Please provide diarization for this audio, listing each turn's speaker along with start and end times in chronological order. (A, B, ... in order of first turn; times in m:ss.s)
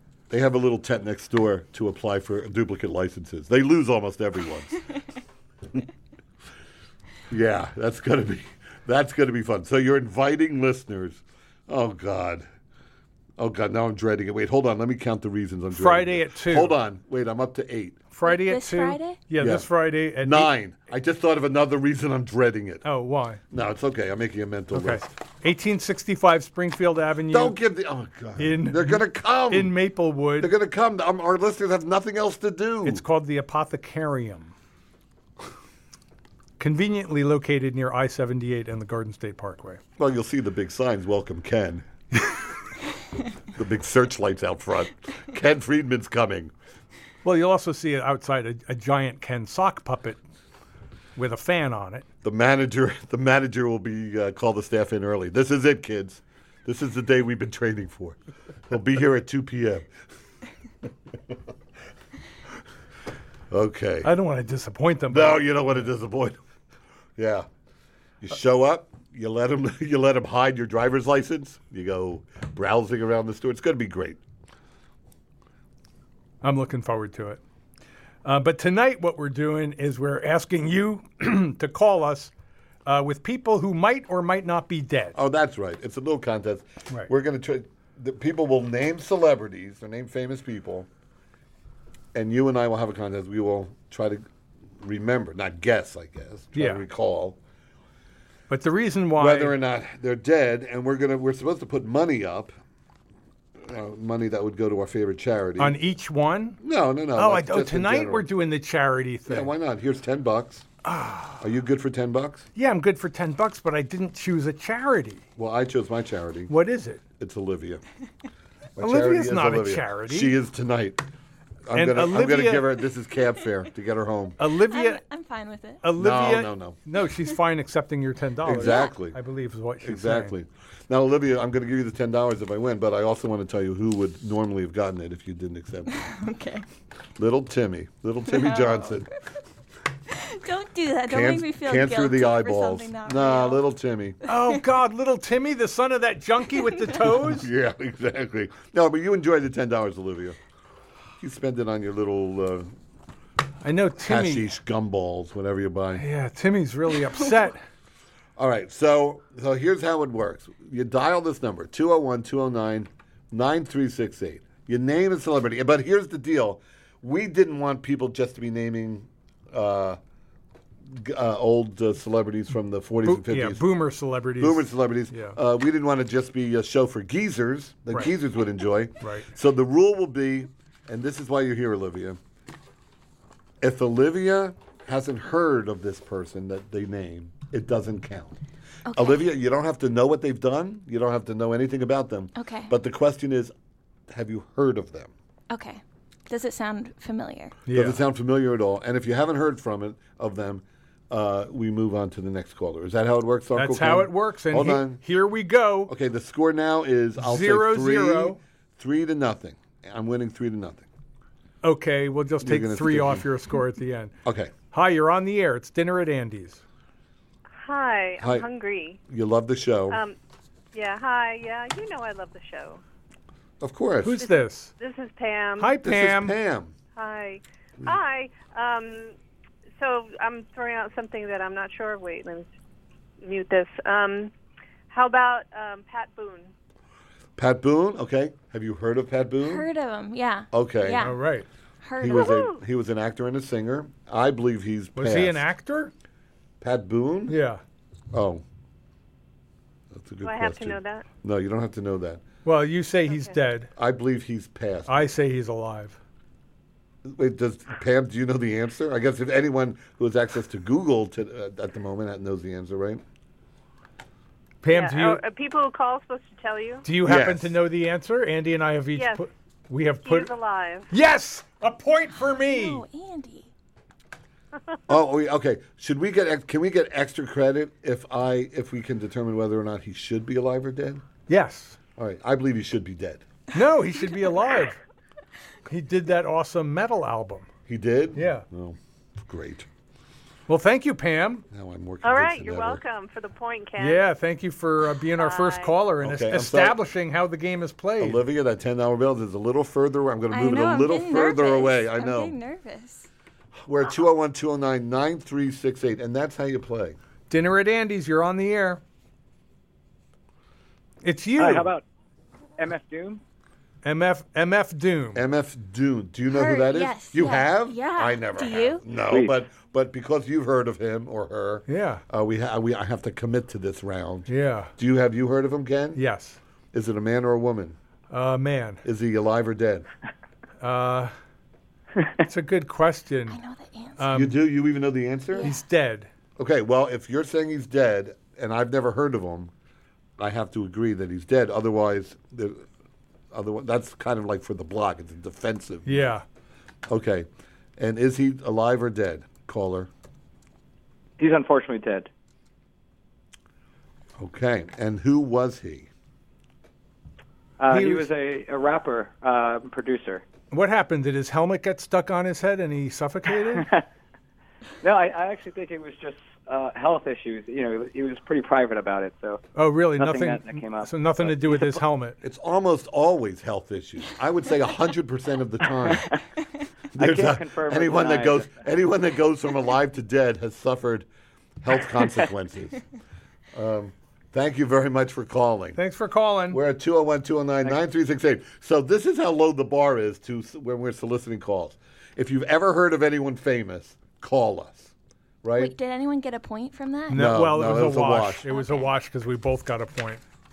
0:00.3-0:04.8 A
0:07.3-0:12.5 A
0:13.4-0:18.0 A
0:15.7-0:16.8 B
0:18.1-0:20.5 B
0:18.2-0:19.2 C
0:19.4-0:19.7 A
0:20.2-0:22.8 A
0:22.8-0:23.4 B
0:23.5-0:25.1 A
0:24.7-0:27.6 B
0:27.3-0:29.7 A
0:28.4-0:30.5 B
0:30.4-0:33.0 A
0:32.8-0:34.5 B
0:36.6-0:39.8 B
0:40.0-0:41.8 A
0:43.5-0:46.5 A
0:47.2-0:50.2 B
0:51.2-0:52.0 B
0:52.2-0:58.2 A
0:58.7-0:59.9 A
1:03.5-1:04.1 A
1:04.0-1:05.5 B
1:05.1-1:06.4 A
1:07.2-1:07.5 A
1:08.2-1:14.2 A
1:16.4-1:17.4 B
1:18.2-1:22.3 B
1:22.8-1:25.2 B
1:25.1-1:30.9 A
1:32.1-1:34.2 A
1:34.8-1:37.4 A
1:36.5-1:36.8 B
1:38.5-1:39.6 B
1:39.2-1:42.5 A
1:43.6-1:45.8 A
1:45.6-1:46.6 B
1:46.6-1:48.3 A
1:47.2-1:49.5 B
1:49.3-1:50.7 A
1:50.8-1:51.4 B
1:51.4-1:52.5 A
1:52.5-1:55.2 B
1:55.4-1:56.5 A
1:56.5-1:57.0 B
1:57.2-1:57.8 A
1:58.8-2:01.0 A
1:58.8-2:00.3 B
2:01.6-2:04.4 A
2:01.7-2:02.8 B
2:04.4-2:05.0 B
2:04.7-2:05.8 C
2:05.8-2:10.3 B
2:05.9-2:06.8 A
2:08.4-2:09.2 A
2:08.6-2:08.9 C
2:09.8-2:16.1 A
2:15.9-2:16.6 C
2:17.2-2:19.1 A
2:18.3-2:19.0 C
2:20.1-2:23.6 C
2:21.1-2:24.2 A
2:24.3-2:27.5 B
2:27.2-2:30.4 A
2:31.2-2:32.7 A
2:33.6-2:34.5 B
2:34.0-2:36.0 A
2:36.0-2:37.6 B
2:38.4-2:50.0 A
2:50.8-2:53.6 A
2:53.0-2:55.4 B
2:54.4-3:02.2 A
2:59.0-2:59.3 B
3:03.6-3:08.4 A
3:08.9-3:09.3 C
3:08.9-3:13.5 A
3:12.4-3:12.7 C
3:14.1-3:15.1 A
3:15.5-3:17.6 C
3:17.7-3:18.0 B
3:17.7-3:25.0 A
3:23.5-3:25.9 B
3:25.9-3:30.9 A
3:27.2-3:28.4 B
3:31.6-3:34.1 B
3:32.4-3:33.2 A
3:34.2-3:34.5 A
3:34.7-3:36.6 B
3:37.6-3:39.0 D
3:38.2-3:38.5 A
3:39.1-3:40.0 A
3:39.9-3:40.2 D
3:40.7-3:42.8 D
3:43.6-3:44.2 A
3:44.0-3:44.7 B
3:44.2-3:45.8 D
3:45.6-3:46.4 B
3:45.8-3:46.7 A
3:46.9-3:49.1 D
3:49.8-3:52.5 D
3:53.2-3:54.3 D
3:54.9-3:56.5 D
3:57.4-3:59.7 A
3:59.4-4:01.2 C
4:00.5-4:01.1 A
4:01.0-4:01.4 B
4:01.8-4:02.4 C
4:02.0-4:05.4 A
4:02.0-4:02.6 D
4:05.0-4:05.9 B
4:06.6-4:07.4 A
4:07.3-4:07.6 B
4:08.1-4:08.4 A
4:09.9-4:12.2 A
4:10.2-4:11.0 D
4:12.4-4:13.7 B
4:13.8-4:15.1 A
4:14.9-4:16.0 B
4:17.0-4:23.0 A
4:24.6-4:25.2 B
4:24.7-4:26.8 D
4:26.8-4:30.3 B
4:27.0-4:27.5 A
4:28.9-4:29.2 D
4:30.0-4:30.9 D
4:30.9-4:32.8 B
4:32.3-4:33.5 C
4:34.9-4:41.0 A
4:41.3-4:41.8 B
4:42.0-4:43.2 A
4:43.5-4:44.8 B
4:45.7-4:47.5 B
4:47.7-4:49.7 A
4:48.1-4:48.4 B
4:50.5-4:51.4 B
4:51.5-4:52.8 A
4:52.0-4:54.0 D
4:53.8-4:58.2 B
4:55.2-4:55.7 D
4:56.0-4:56.8 A
4:58.0-5:02.3 A
5:00.3-5:03.1 C
5:03.6-5:07.0 A
5:07.3-5:08.8 B
5:11.0-5:11.7 B
5:11.4-5:11.8 E
5:12.6-5:13.2 E
5:13.8-5:15.2 B
5:15.1-5:26.0 A
5:16.3-5:18.8 C
5:19.0-5:19.4 E
5:21.7-5:22.0 B
5:24.3-5:24.7 B
5:25.9-5:26.4 B
5:26.7-5:27.8 A
5:28.1-5:28.8 B
5:28.8-5:29.9 A
5:30.6-5:31.1 B
5:32.2-5:33.4 B
5:33.3-5:34.0 C
5:34.0-5:34.4 B
5:34.1-5:35.5 A
5:35.4-5:36.1 B
5:36.4-5:39.5 A
5:40.2-5:42.6 A
5:43.3-5:46.1 A
5:45.8-5:46.2 B
5:46.9-5:49.9 A
5:51.2-5:52.1 E
5:54.2-5:55.9 A
5:57.6-6:00.2 E
5:57.7-5:58.1 B
6:00.5-6:03.6 B
6:03.5-6:03.8 E
6:04.8-6:09.4 E
6:09.5-6:12.2 B
6:10.0-6:11.8 E
6:12.2-6:16.1 A
6:15.8-6:16.1 E
6:16.9-6:21.1 A
6:17.0-6:18.7 E
6:21.6-6:22.8 A
6:23.5-6:25.8 A
6:25.8-6:26.6 B
6:26.5-6:35.7 A
6:35.5-6:37.3 C
6:37.1-6:40.2 B
6:37.1-6:38.4 A
6:38.5-6:38.9 C